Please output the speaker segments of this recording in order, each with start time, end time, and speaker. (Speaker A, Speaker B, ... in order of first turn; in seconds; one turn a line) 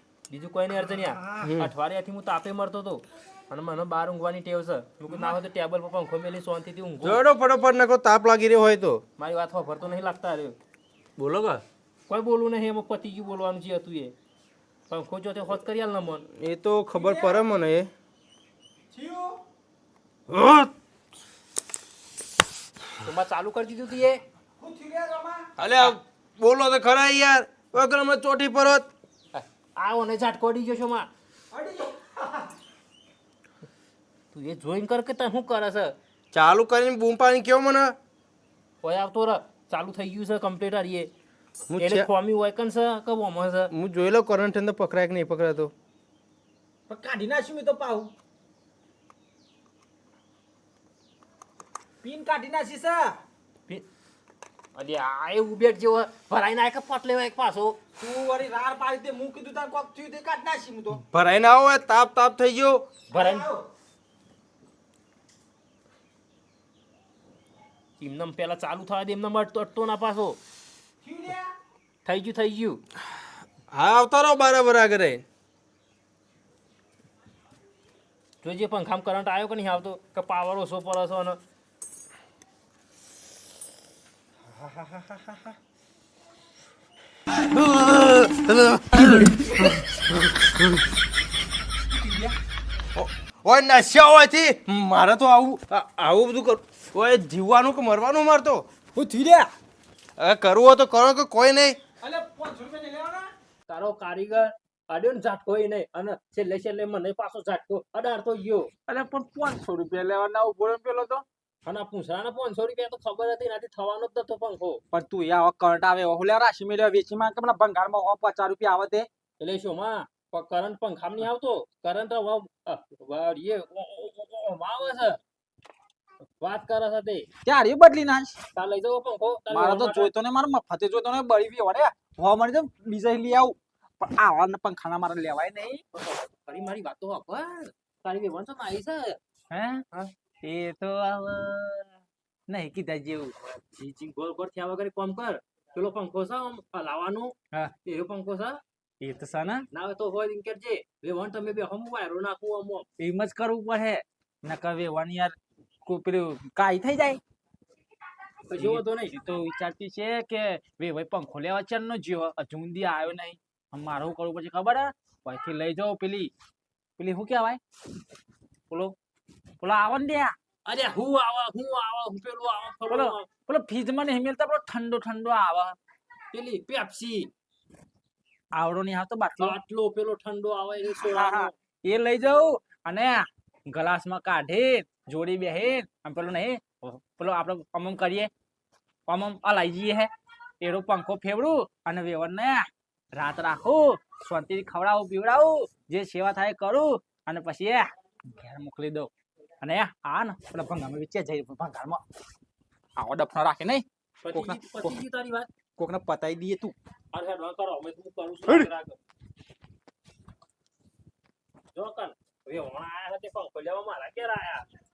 Speaker A: 0.3-7.2
Speaker B: 0.8-1.5
Speaker C: 1.4-1.7
Speaker C: 7.0-9.0
Speaker A: 9.2-10.6
Speaker C: 11.2-11.6
Speaker A: 12.1-14.1
Speaker A: 14.9-16.3
Speaker C: 16.4-17.9
Speaker B: 16.9-17.5
Speaker B: 18.9-19.4
Speaker C: 20.3-20.7
Speaker A: 23.0-24.2
Speaker B: 24.6-25.5
Speaker C: 25.6-28.9
Speaker A: 29.3-31.1
Speaker B: 31.5-32.5
Speaker A: 34.3-35.9
Speaker C: 36.3-37.9
Speaker A: 38.8-41.1
Speaker C: 41.7-42.1
Speaker A: 41.8-43.7
Speaker C: 43.7-45.7
Speaker B: 46.9-48.1
Speaker B: 52.0-53.2
Speaker A: 54.7-57.8
Speaker B: 58.0-61.0
Speaker C: 61.1-62.9
Speaker B: 63.1-63.6
Speaker A: 63.1-63.5
Speaker A: 68.0-70.4
Speaker B: 71.0-71.5
Speaker A: 72.0-72.8
Speaker C: 73.7-75.2
Speaker A: 78.4-81.4
Speaker B: 84.5-85.5
Speaker C: 87.4-89.8
Speaker B: 91.9-92.3
Speaker C: 92.9-98.6
Speaker B: 98.9-99.5
Speaker C: 100.2-101.8
Speaker B: 102.0-103.3
Speaker A: 103.7-108.7
Speaker B: 108.9-111.2
Speaker A: 111.6-114.8
Speaker B: 114.9-119.1
Speaker A: 119.4-125.2
Speaker A: 126.4-127.3
Speaker B: 127.4-128.4
Speaker A: 128.5-130.1
Speaker B: 129.5-135.8
Speaker A: 135.9-139.2
Speaker B: 139.5-139.8
Speaker B: 140.4-141.9
Speaker B: 142.5-143.3
Speaker A: 143.8-148.6
Speaker B: 149.0-149.7
Speaker A: 149.7-152.9
Speaker B: 153.0-157.2
Speaker A: 158.5-159.1
Speaker B: 158.6-166.3
Speaker B: 167.0-167.6
Speaker B: 168.7-168.9
Speaker B: 169.6-170.3
Speaker A: 170.6-173.3
Speaker B: 172.9-175.8
Speaker A: 176.3-177.3
Speaker B: 178.5-179.6
Speaker A: 179.4-181.5
Speaker B: 180.9-188.3
Speaker B: 189.1-190.1
Speaker B: 190.6-199.1
Speaker B: 199.6-202.0
Speaker B: 202.9-205.0
Speaker A: 204.2-205.5
Speaker B: 205.8-206.7
Speaker A: 207.1-209.0
Speaker A: 211.7-214.7